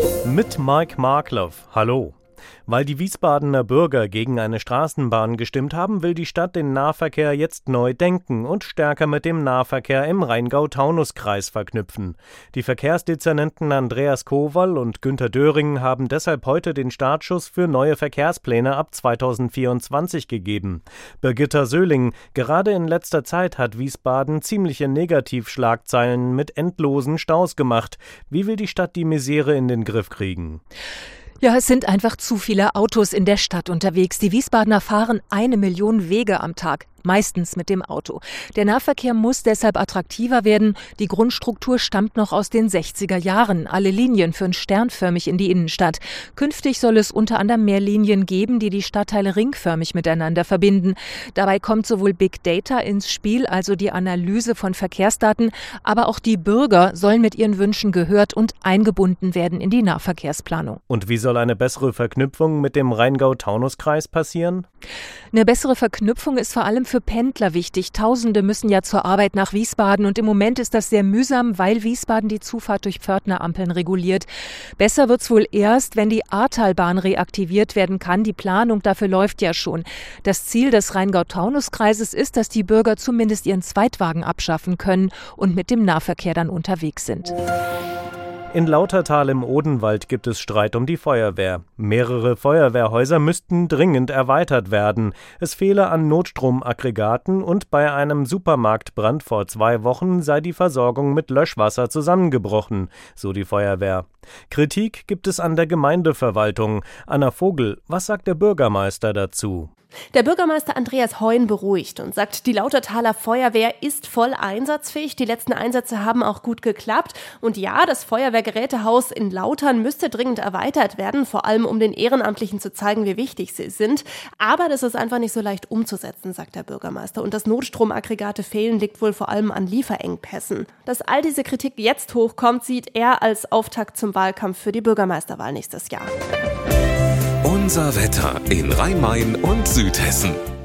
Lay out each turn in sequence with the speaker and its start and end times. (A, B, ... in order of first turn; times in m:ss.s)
0:00.2-0:02.2 A
0:02.7-0:30.6 A
0:31.4-1:00.8 B
1:00.9-1:04.7 A
1:05.3-1:14.3 B
1:14.8-1:27.3 B
1:28.5-1:49.7 A
1:50.1-2:16.1 C
2:17.4-2:20.4 D